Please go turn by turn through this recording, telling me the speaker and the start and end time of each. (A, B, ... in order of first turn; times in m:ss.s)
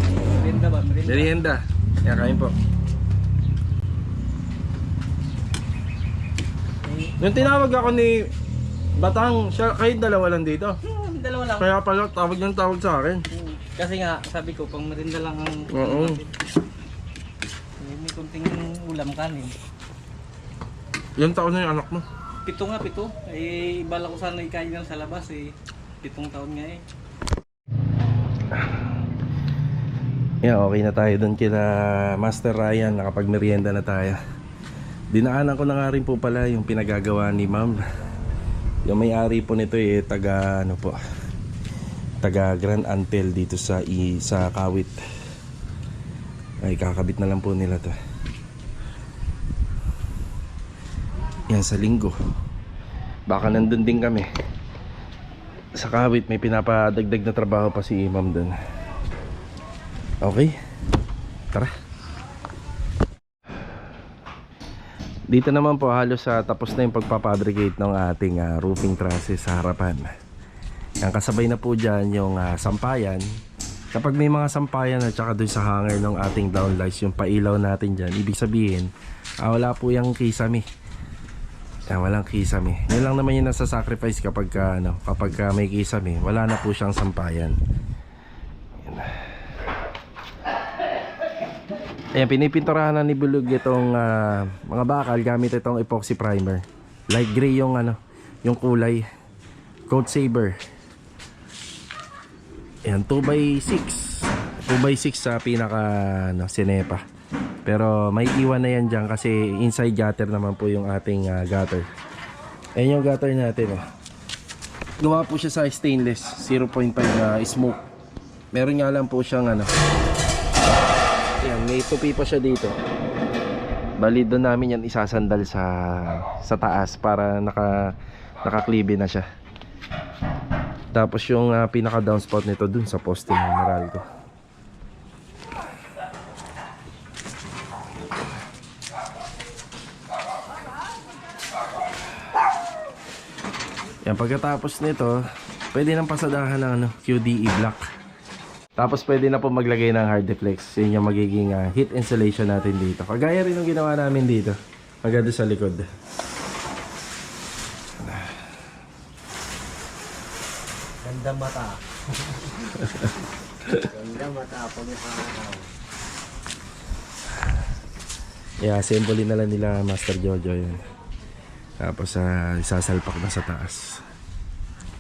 0:00.3-0:01.4 A
0:01.1-0:02.6 B
0:06.8-0:07.8 A
0:07.2-0:08.3 B
0:09.0-0:10.8 B
0:10.9-0:11.7 A
0:11.6-0:13.2 B
0:13.3-0:16.3 A
0:15.7-0:16.2 B
0:17.8-0:19.6 A
0:21.2-0:22.1 B
0:22.5-0:26.8 A
0:28.5-0:28.9 B
0:30.4-0:34.2 B
0:35.1-0:37.8 B
0:38.9-0:41.0 B
0:42.2-0:45.0 B
0:46.6-0:48.0 B
0:51.5-0:52.1 B
0:53.3-0:54.3 B
0:55.8-0:58.6 B
1:00.2-1:00.6 B
1:05.3-1:10.1 B
1:11.0-1:13.2 B
1:14.0-1:18.9 B
1:19.4-1:20.6 B
1:21.9-1:27.6 B
1:28.8-1:29.2 B
1:32.2-1:39.0 B
1:39.9-1:40.6 B
1:42.8-1:47.0 B
1:47.7-1:51.9 B
1:52.8-1:53.8 B
1:55.0-1:57.8 B
1:58.5-1:59.7 B
2:01.4-2:02.8 B
2:04.0-2:07.8 B
2:08.4-2:09.2 B
2:10.9-2:14.0 B
2:24.1-2:25.2 B
2:25.7-2:27.8 B
2:28.8-2:35.8 B
2:38.0-2:38.3 B
2:41.0-2:41.8 C
2:42.3-2:42.8 C
2:42.8-2:43.1 B
2:43.6-2:43.9 B
2:43.9-2:45.6 C
2:48.6-2:50.8 B
2:51.8-2:54.0 B